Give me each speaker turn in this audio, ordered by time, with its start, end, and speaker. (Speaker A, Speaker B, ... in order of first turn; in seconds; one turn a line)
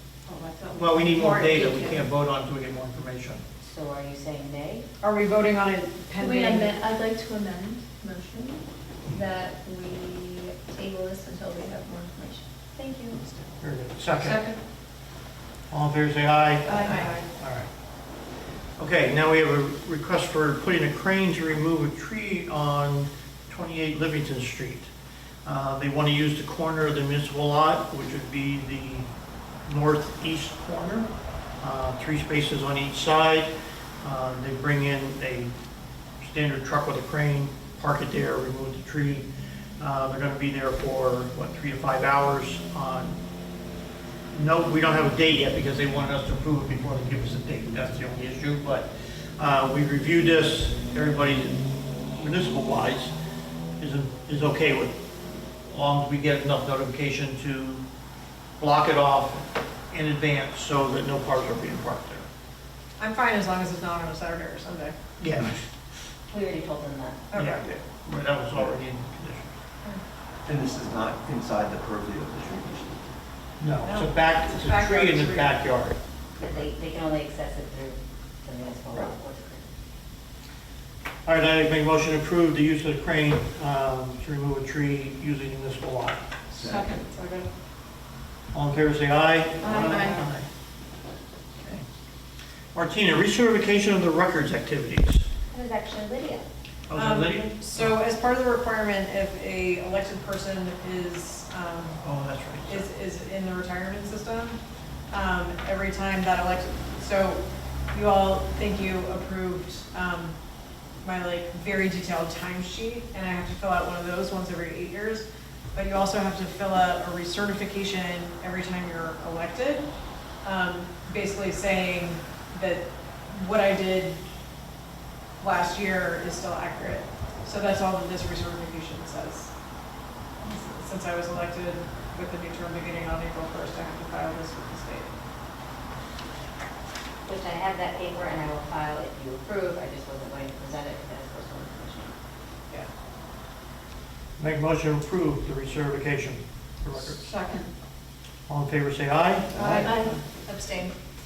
Speaker A: 0.3-1.9
Speaker B: 0.7-3.4
Speaker C: 3.6-4.8
Speaker D: 5.0-6.8
Speaker E: 6.2-13.2
Speaker B: 13.6-14.6
Speaker B: 15.7-17.7
Speaker A: 16.7-17.2
Speaker B: 18.8-24.9
Speaker B: 25.4-29.1
Speaker B: 29.7-31.1
Speaker B: 31.6-35.5
Speaker B: 36.2-39.3
Speaker B: 39.8-43.2
Speaker B: 44.3-51.6
Speaker B: 52.2-53.1
Speaker B: 53.8-55.0
Speaker B: 55.6-57.8
Speaker B: 58.6-62.3
Speaker D: 63.0-65.0
Speaker B: 65.2-65.6
Speaker C: 66.3-67.3
Speaker D: 67.3-67.7
Speaker B: 67.3-69.5
Speaker F: 70.4-73.0
Speaker B: 73.6-76.0
Speaker D: 73.8-75.6
Speaker C: 76.4-79.7
Speaker B: 81.2-86.2
Speaker F: 86.5-87.0
Speaker A: 86.7-87.0
Speaker D: 87.1-87.5
Speaker B: 88.5-90.5
Speaker A: 89.6-90.2
Speaker D: 89.7-90.1
Speaker B: 92.8-95.3
Speaker C: 95.5-96.5
Speaker B: 96.9-98.0
Speaker D: 97.0-102.0
Speaker B: 102.0-102.9
Speaker D: 102.7-104.6
Speaker D: 105.1-110.3
Speaker D: 111.0-119.9
Speaker D: 120.4-124.2
Speaker D: 125.4-129.5
Speaker D: 130.4-135.1
Speaker C: 137.3-142.1
Speaker B: 144.4-147.3
Speaker A: 147.2-147.7
Speaker B: 148.5-150.1
Speaker D: 149.5-150.9
Speaker E: 149.8-150.2